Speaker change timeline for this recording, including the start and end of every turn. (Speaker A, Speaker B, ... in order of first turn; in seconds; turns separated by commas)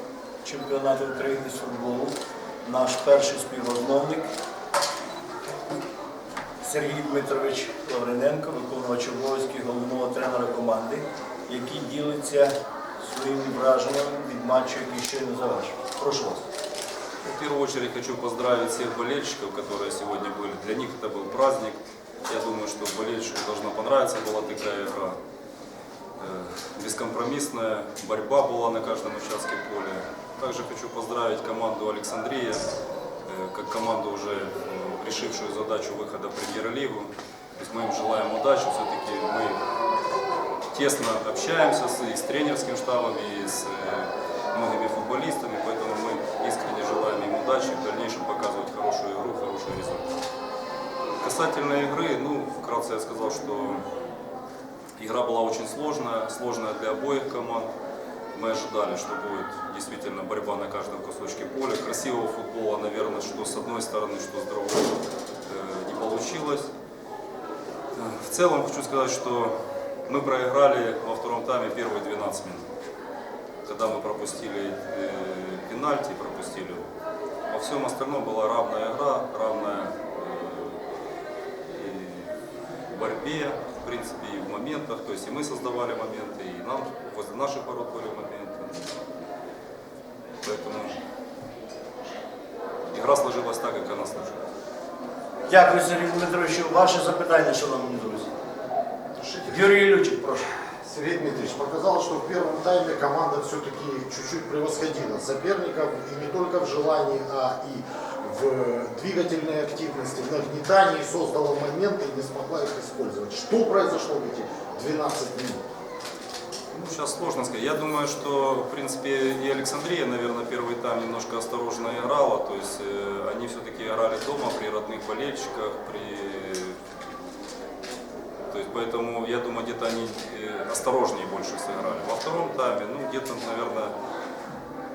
Speaker A: 0.4-2.1, Speaker A: 2.6-4.3, Speaker A: 6.6-16.5, Speaker B: 17.2-25.2, Speaker B: 26.2-32.6, Speaker B: 33.3-39.6, Speaker B: 40.7-50.1, Speaker B: 51.2-53.9, Speaker B: 55.0-57.7, Speaker B: 58.3-66.7, Speaker B: 67.9-69.5, Speaker B: 70.1-72.7, Speaker B: 73.7-76.9, Speaker B: 77.5-80.8, Speaker B: 81.7-82.3, Speaker B: 82.9-88.9, Speaker B: 90.4-91.0, Speaker B: 92.9-94.4, Speaker A: 95.5-98.3, Speaker C: 99.2-99.6, Speaker A: 99.5-100.5, Speaker C: 100.8-115.6, Speaker B: 116.7-126.8, Speaker B: 128.5-133.9